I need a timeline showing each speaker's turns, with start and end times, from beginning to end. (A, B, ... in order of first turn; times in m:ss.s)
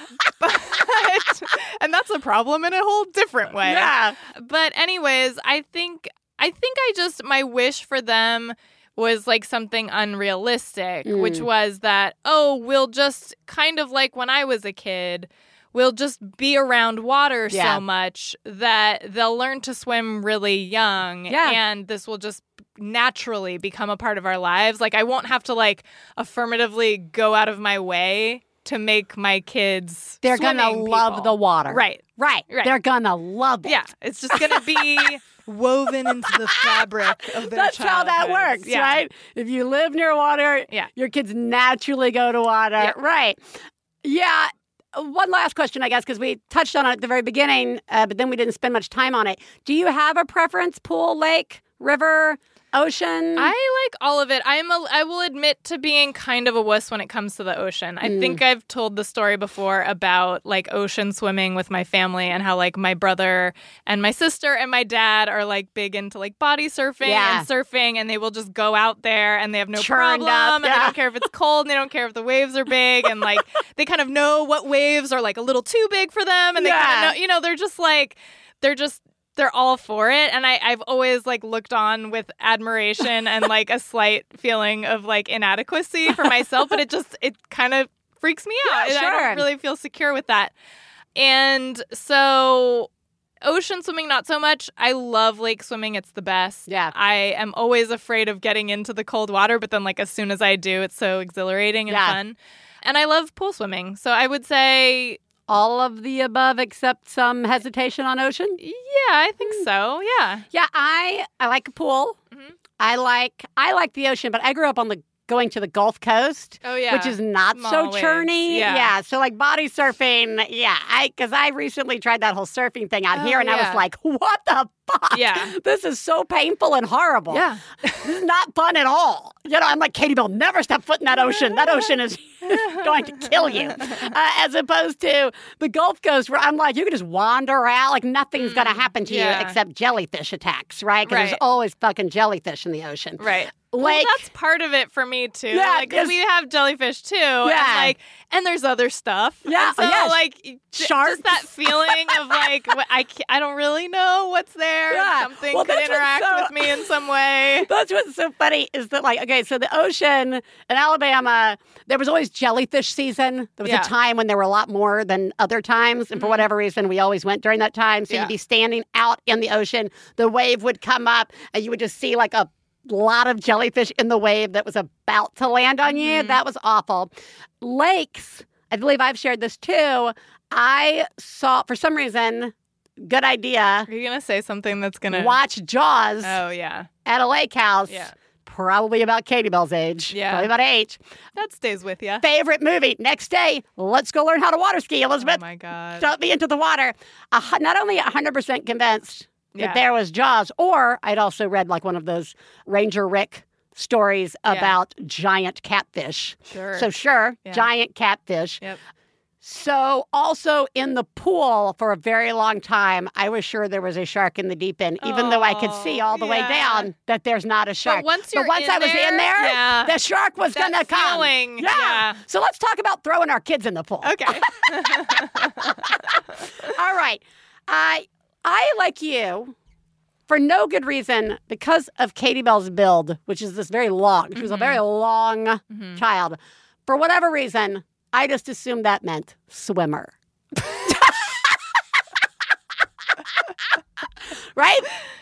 0:00.3-0:32.7 A
0:03.6-0:04.2 B
0:11.1-0:11.4 B
0:17.5-0:17.8 B
0:21.3-0:21.6 B
0:30.2-0:33.8 B
0:33.7-0:39.0 A
0:34.3-0:34.6 B
0:37.5-0:43.4 B
0:44.0-0:53.5 B
0:53.4-1:30.5 A
0:58.0-0:58.4 B
1:07.0-1:07.5 B
1:09.8-1:10.9 B
1:16.6-1:17.2 B
1:28.6-1:29.5 B
1:31.2-1:32.9 A
1:33.4-1:45.2 A
1:36.7-1:36.9 B
1:41.9-1:42.2 B
1:45.5-1:48.6 B
1:48.6-1:50.5 A
1:50.5-1:52.2 B
1:52.8-2:24.2 B
1:56.6-1:58.9 A
2:03.1-2:03.8 A
2:05.1-2:05.5 A
2:07.3-2:08.0 A
2:12.5-2:14.0 A
2:18.4-2:19.6 A
2:21.0-2:21.4 A
2:23.2-2:37.7 A
2:25.5-2:26.2 B
2:27.4-2:27.9 B
2:29.5-2:30.2 B
2:30.7-2:32.4 B
2:34.9-2:36.8 B
2:37.7-3:03.9 B
2:43.6-2:43.9 A
2:46.2-2:46.5 A
2:55.9-2:56.4 A
3:03.9-3:05.4 A
3:05.1-3:06.4 B
3:06.2-3:06.9 A
3:07.1-3:11.0 B
3:10.1-3:10.5 A
3:11.4-3:12.2 A
3:12.2-3:15.4 B
3:15.2-3:16.1 A
3:16.0-3:28.6 B
3:19.6-3:19.8 A
3:24.5-3:24.8 A
3:26.5-3:26.9 A
3:29.4-3:45.0 B
3:35.0-3:36.9 A
3:37.8-3:42.2 A
3:44.0-3:45.8 A
3:45.6-3:46.0 B
3:46.6-3:49.6 B
3:50.3-4:00.1 B
3:54.4-3:54.8 A
3:55.7-3:56.0 A
4:00.7-4:01.2 B
4:04.6-4:04.9 B